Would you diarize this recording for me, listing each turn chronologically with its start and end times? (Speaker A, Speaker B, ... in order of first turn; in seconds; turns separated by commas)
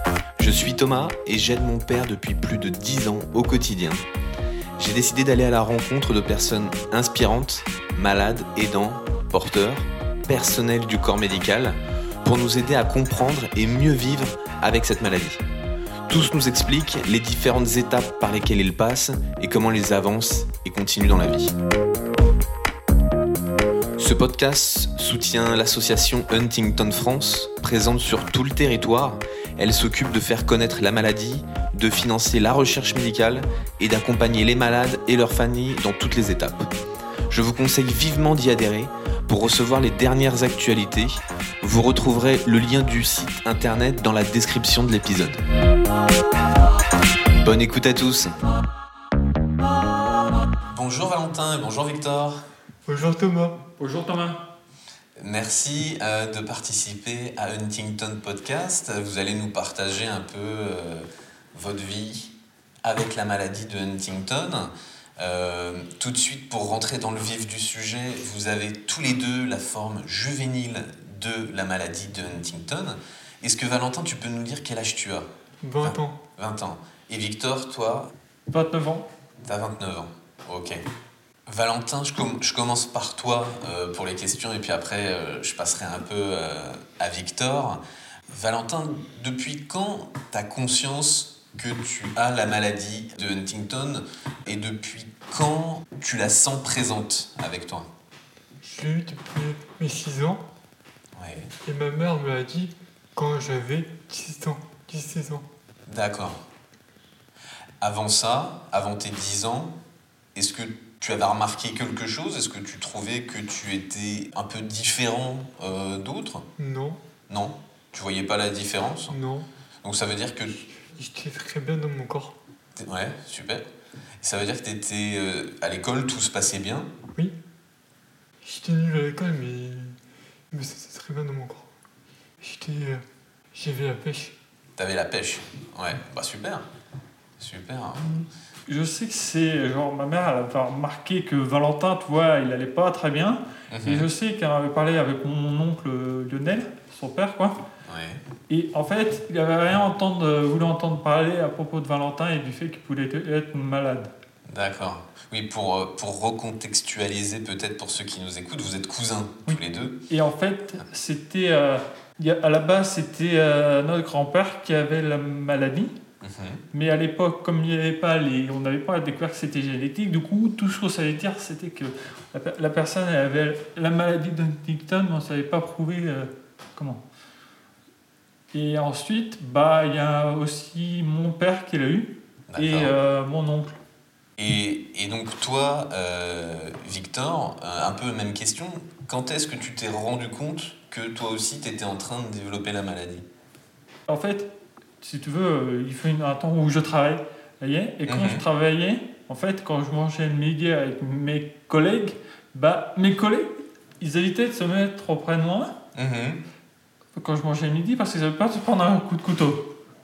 Speaker A: 0.4-4.0, Speaker A: 4.8-15.4, Speaker A: 16.1-21.5, Speaker A: 24.0-36.7, Speaker A: 37.3-45.4, Speaker A: 47.4-48.3, Speaker A: 50.7-52.4, Speaker B: 52.9-53.6, Speaker C: 53.8-54.4, Speaker A: 55.2-62.3, Speaker A: 62.8-75.3, Speaker B: 75.6-76.2, Speaker A: 75.8-78.1, Speaker C: 78.5-79.1, Speaker A: 79.5-80.8, Speaker A: 81.5-97.9, Speaker B: 98.6-100.5, Speaker A: 101.2-101.5, Speaker B: 101.6-105.5, Speaker A: 105.9-106.4, Speaker A: 107.8-109.7, Speaker A: 110.3-116.5, Speaker B: 116.6-117.0, Speaker A: 117.3-119.2, Speaker B: 119.1-119.5, Speaker A: 119.8-120.5, Speaker B: 120.5-122.4, Speaker A: 122.8-123.7, Speaker A: 124.2-126.9, Speaker B: 128.4-130.0, Speaker B: 130.5-131.7, Speaker B: 132.4-134.4, Speaker A: 134.8-136.7, Speaker A: 137.4-138.3, Speaker C: 138.7-147.6, Speaker A: 143.7-144.1, Speaker A: 147.8-148.2, Speaker C: 148.5-154.1, Speaker A: 154.5-160.0, Speaker C: 159.5-166.0, Speaker A: 166.2-166.6, Speaker C: 166.7-177.0, Speaker C: 178.5-183.8, Speaker A: 182.5-182.9, Speaker A: 184.4-193.2, Speaker C: 194.1-205.8, Speaker A: 198.1-198.4, Speaker A: 205.9-206.4, Speaker C: 207.2-209.7